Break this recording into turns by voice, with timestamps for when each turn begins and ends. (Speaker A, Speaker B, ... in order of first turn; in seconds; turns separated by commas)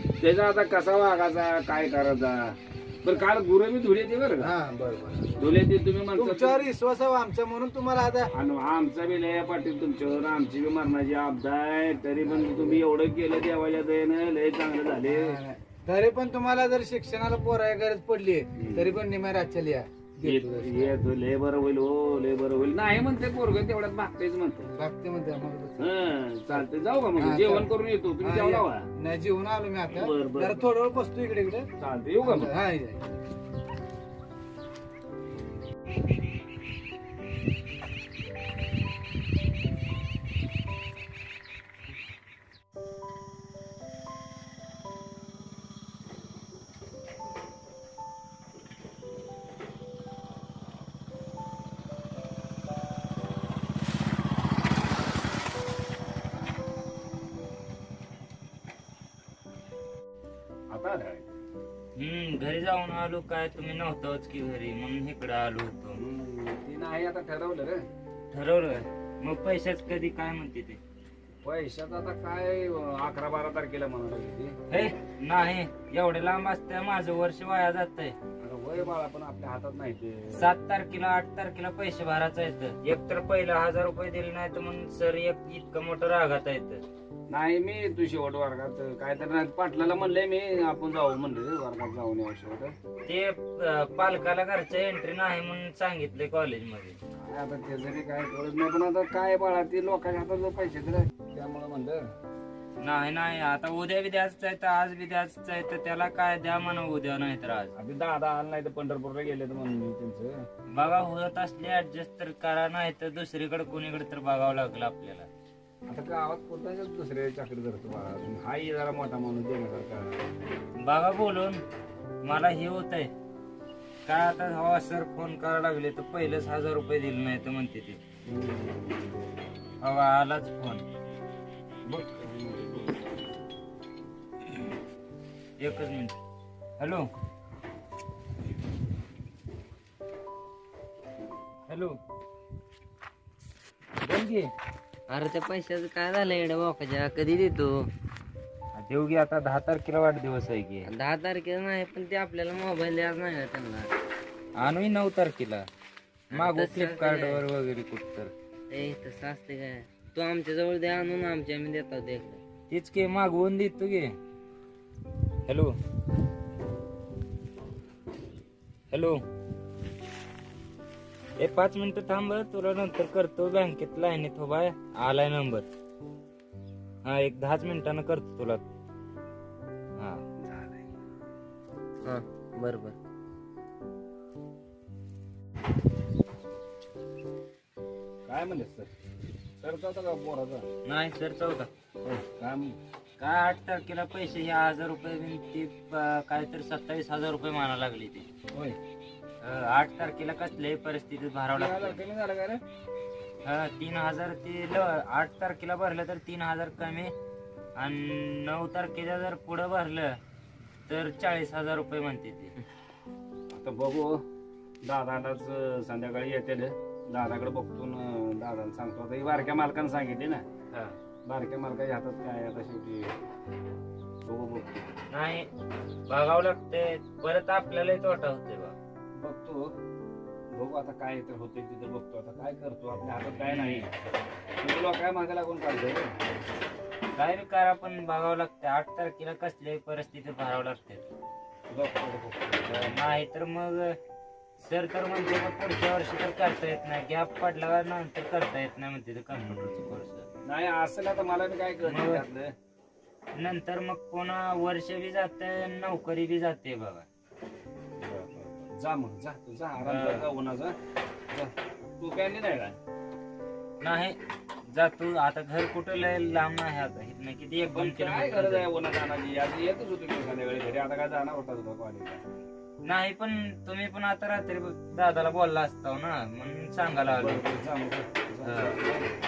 Speaker A: 0.2-4.5, Speaker B: 4.4-5.5, Speaker A: 5.4-6.6, Speaker B: 6.1-8.3, Speaker A: 8.3-15.4, Speaker B: 12.2-12.8, Speaker B: 15.0-21.0, Speaker A: 18.6-18.9, Speaker A: 20.2-24.7, Speaker B: 24.7-25.9, Speaker A: 25.8-28.9, Speaker B: 27.1-27.7, Speaker B: 28.2-31.7, Speaker A: 29.9-30.6, Speaker A: 31.8-32.5, Speaker B: 32.2-33.2, Speaker A: 60.7-61.2, Speaker C: 62.0-66.0, Speaker A: 65.9-67.9, Speaker C: 68.3-70.8, Speaker A: 71.4-74.6, Speaker C: 74.7-78.2, Speaker A: 78.4-80.5, Speaker C: 80.3-86.8, Speaker A: 87.3-92.7, Speaker C: 93.0-97.0, Speaker A: 97.2-102.0, Speaker C: 102.8-107.7, Speaker A: 107.8-110.4, Speaker C: 110.7-115.3, Speaker A: 115.9-120.2, Speaker C: 120.8-121.6, Speaker C: 122.2-123.1, Speaker C: 124.0-128.0, Speaker A: 128.3-129.2, Speaker C: 129.8-130.8, Speaker A: 132.1-132.9, Speaker C: 135.6-136.2, Speaker C: 136.8-137.1, Speaker C: 141.7-142.0, Speaker C: 144.0-144.5, Speaker D: 145.1-147.8, Speaker C: 148.7-150.9, Speaker D: 150.8-153.9, Speaker C: 154.6-155.7, Speaker C: 156.3-158.3, Speaker D: 156.3-157.4, Speaker D: 158.7-162.4, Speaker C: 162.7-164.1, Speaker C: 165.5-165.8, Speaker C: 168.9-169.2, Speaker C: 171.4-175.7, Speaker C: 177.0-178.6, Speaker C: 180.0-180.2, Speaker A: 180.4-180.8, Speaker D: 182.0-182.9, Speaker A: 188.2-188.9, Speaker A: 189.6-190.7, Speaker C: 190.8-191.7, Speaker A: 192.0-192.8, Speaker C: 193.2-198.3, Speaker A: 198.5-198.8, Speaker C: 199.4-202.0, Speaker A: 201.5-202.6, Speaker C: 203.4-207.1, Speaker C: 207.8-210.2, Speaker C: 210.9-212.5, Speaker A: 213.5-214.2, Speaker A: 214.8-220.4, Speaker A: 221.2-223.1, Speaker A: 224.2-224.8, Speaker C: 225.1-225.5, Speaker C: 226.1-228.8, Speaker A: 229.1-229.7, Speaker A: 230.5-233.9, Speaker C: 233.5-233.8, Speaker A: 234.6-236.1, Speaker C: 237.1-241.1, Speaker A: 241.7-243.0, Speaker C: 242.7-243.9, Speaker C: 244.6-250.3, Speaker A: 250.4-252.5, Speaker C: 251.8-252.2, Speaker C: 253.3-257.1, Speaker A: 258.0-260.8, Speaker C: 259.8-260.3, Speaker A: 261.3-262.8, Speaker C: 263.8-268.7, Speaker A: 267.6-272.2, Speaker C: 272.8-277.6, Speaker A: 277.0-279.1, Speaker C: 278.4-278.8